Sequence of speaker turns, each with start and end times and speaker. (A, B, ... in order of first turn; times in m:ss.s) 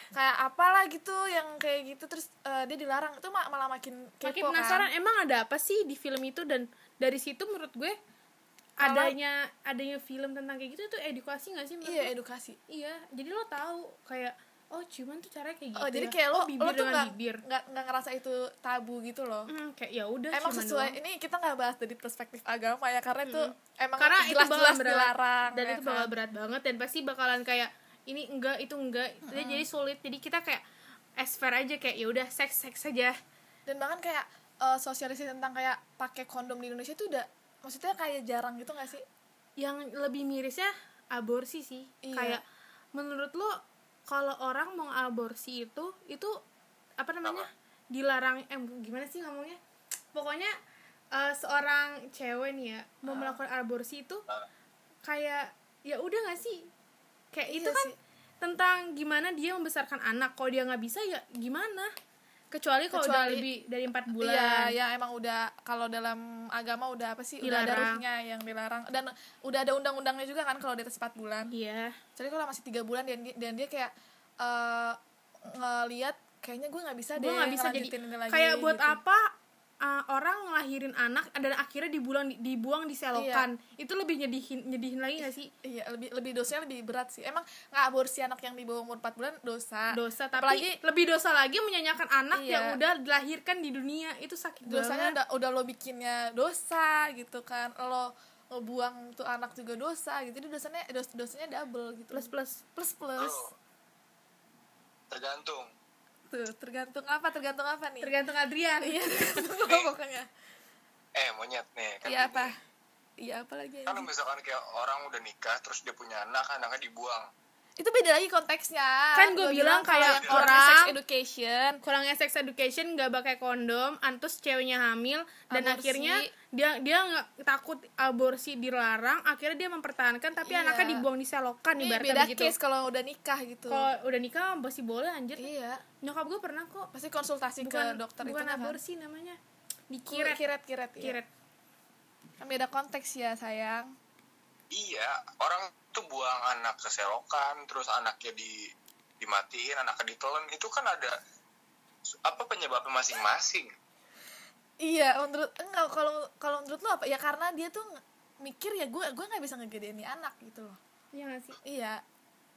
0:00.1-0:04.9 A
0:04.2-0:08.0 B
0:08.8-0:09.2 A
0:08.8-0:12.1 B
0:11.8-0:12.6 A
0:12.7-0:17.4 B
0:15.8-0:19.5 A
0:19.5-0:21.0 B
0:20.3-0:26.1 A
0:23.2-0:30.6 B
0:29.2-0:29.6 A
0:31.2-0:33.2 B
0:33.6-0:39.0 A
0:39.6-0:42.4 B
0:42.0-0:42.4 A
0:42.9-0:46.4 B
0:47.0-0:49.6 B
0:50.1-0:50.5 B
0:51.1-0:54.2 B
0:53.0-0:53.4 A
0:55.0-0:56.7 B
0:57.3-1:01.9 B
0:57.5-0:58.0 A
1:02.5-1:04.7 B
1:02.9-1:03.4 A
1:04.1-1:11.5 A
1:07.4-1:08.0 B
1:11.5-1:12.0 B
1:12.2-1:19.0 A
1:17.2-1:25.5 B
1:23.1-1:23.5 A
1:25.6-1:30.8 A
1:29.9-1:35.2 B
1:32.3-1:32.8 A
1:34.6-1:43.5 A
1:42.1-1:42.6 B
1:43.2-1:43.5 C
1:45.1-1:45.7 C
1:46.3-1:48.1 A
1:48.0-1:49.5 B
1:48.8-1:50.3 A
1:49.6-1:49.9 C
1:51.2-1:52.5 C
1:52.0-1:52.6 A
1:53.2-1:54.1 A
1:53.9-1:57.3 C
1:57.8-2:01.8 A
1:59.1-2:00.9 B
2:00.0-2:00.6 C
2:01.8-2:12.5 B
2:05.5-2:06.3 A
2:10.4-2:11.1 A
2:11.8-2:13.9 A
2:13.7-2:15.5 B
2:15.4-2:15.8 A
2:16.0-2:16.9 B
2:16.9-2:18.8 A
2:17.6-2:19.4 B
2:19.9-2:20.4 B
2:20.1-2:21.2 A
2:21.0-2:21.3 B
2:22.4-2:24.0 A
2:24.7-2:31.2 C
2:32.2-2:33.7 C
2:34.8-2:40.8 A
2:41.1-2:41.6 B
2:41.6-2:42.0 A